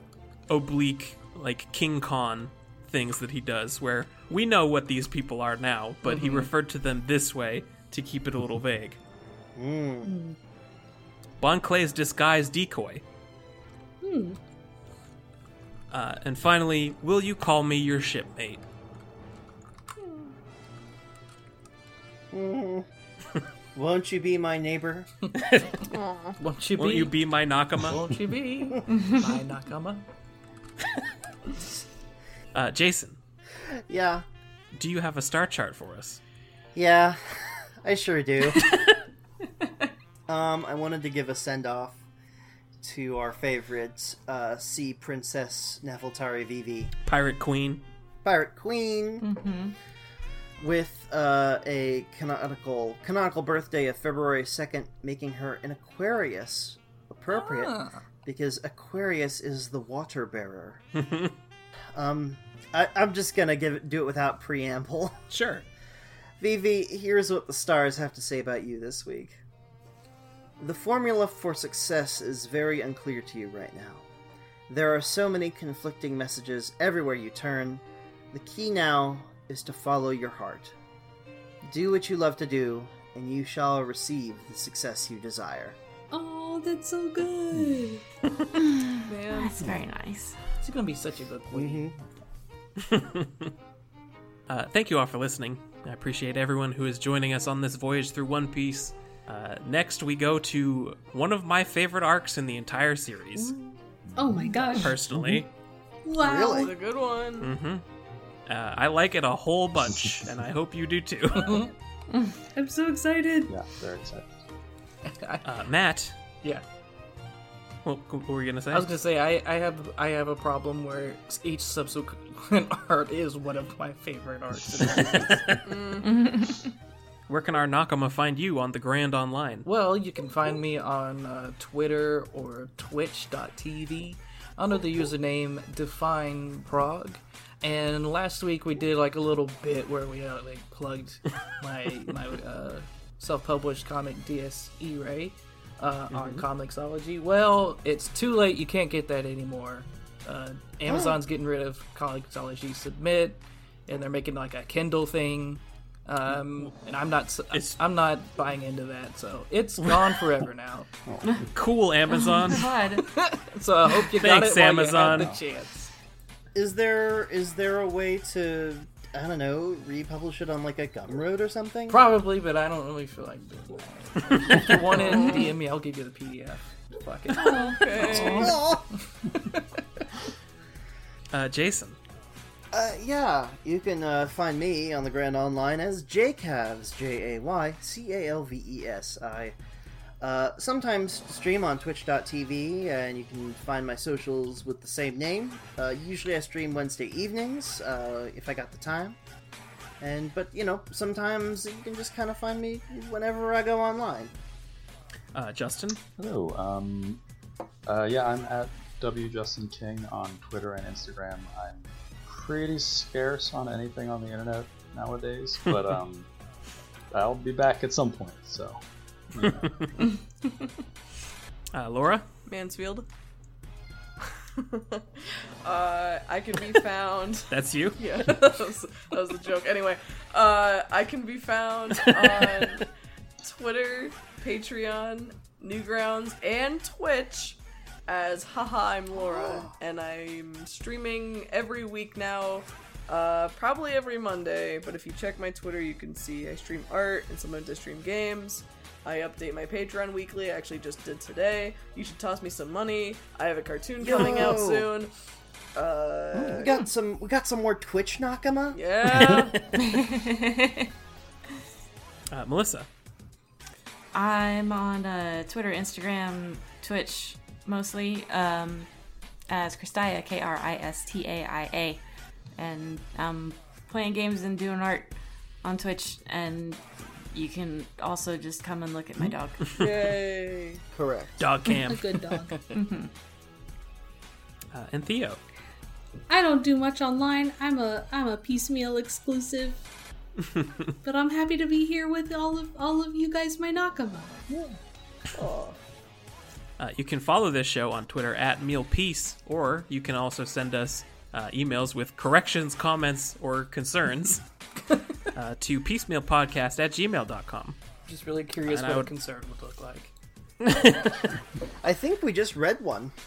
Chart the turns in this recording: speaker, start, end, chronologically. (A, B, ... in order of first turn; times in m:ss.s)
0:00.5-0:09.0 A
0:06.0-0:06.5 B
0:09.6-0:10.2 C
0:10.0-0:10.4 D
0:11.4-0:13.0 A
0:14.0-0:14.4 D
0:15.9-0:18.6 A
0:22.3-0:22.9 C
0:23.8-0:25.1 C
0:25.4-0:25.8 A
0:25.9-0:26.4 E
0:26.4-0:27.1 B
0:26.8-0:28.0 A
0:27.8-0:30.0 B
0:32.5-0:33.2 A
0:33.9-0:34.2 C
0:34.7-0:36.2 A
0:36.8-0:38.7 C
0:40.3-0:42.0 C
0:42.8-0:46.9 C
0:47.1-0:47.8 A
0:48.2-0:49.3 C
0:49.2-0:49.8 F
0:50.6-1:00.8 C
0:57.3-0:58.0 B
1:01.0-1:01.3 A
1:01.9-1:05.2 C
1:05.3-1:05.6 A
1:06.4-1:09.4 C
1:10.6-1:14.1 C
1:14.7-1:20.8 C
1:21.6-1:25.8 C
1:26.1-1:28.0 D
1:29.0-1:29.7 E
1:29.3-1:30.4 F
1:30.6-1:31.9 B
1:31.5-1:32.0 C
1:32.8-1:33.5 A
1:34.5-1:43.5 A
1:44.1-1:44.4 G
1:44.2-1:45.0 D
1:44.7-1:45.5 A
1:45.0-1:45.4 G
1:46.0-1:46.7 D
1:46.2-1:46.7 C
1:46.5-1:47.5 E
1:47.4-1:47.8 A
1:48.5-1:51.7 A
1:51.4-1:51.7 B
1:52.5-1:53.5 D
1:53.5-1:54.4 G
1:55.1-1:55.4 B
1:55.4-1:56.2 A
1:57.8-1:58.9 A
1:58.7-2:05.6 B
2:05.6-2:06.3 E
2:06.0-2:06.7 F
2:07.3-2:09.7 A
2:09.7-2:40.9 B
2:26.1-2:26.4 A
2:30.9-2:31.2 C
2:37.5-2:37.8 A
2:39.8-2:40.1 A
2:41.1-2:41.5 G
2:41.5-2:42.7 A
2:42.1-2:43.1 F
2:43.0-2:45.9 B
2:44.1-2:45.3 A
2:45.1-2:45.4 G
2:46.6-2:52.0 C
2:51.9-2:57.8 B
2:54.3-2:54.8 A
2:54.9-2:55.6 E
2:57.3-2:58.6 E
2:57.4-2:57.8 D
2:58.0-2:58.5 F
2:58.2-2:58.9 C
2:59.3-2:59.6 B
3:01.3-3:02.0 A
3:02.7-3:09.6 C
3:10.2-3:19.2 C
3:20.0-3:24.3 C
3:25.3-3:26.0 A
3:26.2-3:27.2 G
3:27.9-3:36.3 G
3:37.1-3:38.8 G
3:39.3-3:39.7 G
3:39.4-3:39.9 A
3:41.7-3:42.2 A
3:42.5-3:43.1 E
3:44.6-3:52.9 E
3:47.5-3:48.5 A
3:53.4-4:15.1 E
3:59.2-3:59.7 C
4:14.0-4:14.9 C
4:15.8-4:16.8 E
4:16.4-4:18.8 C
4:18.7-4:19.6 E
4:19.7-4:20.9 F
4:22.3-4:22.9 A
4:24.1-4:28.9 F
4:29.5-4:32.0 F
4:32.6-4:39.6 F
4:39.8-4:40.8 E
4:40.9-4:41.4 C
4:41.4-4:42.0 A
4:41.8-4:42.6 D
4:42.7-4:43.1 F
4:44.7-4:45.4 A
4:46.3-4:49.8 D
4:50.5-4:50.7 A
4:51.0-4:54.5 D
4:55.3-4:55.8 E
4:56.8-5:04.4 A
5:04.9-5:05.2 B
5:05.4-5:07.8 A
5:08.1-5:10.1 B
5:08.7-5:09.1 A
5:10.6-5:11.3 A
5:11.8-5:13.1 C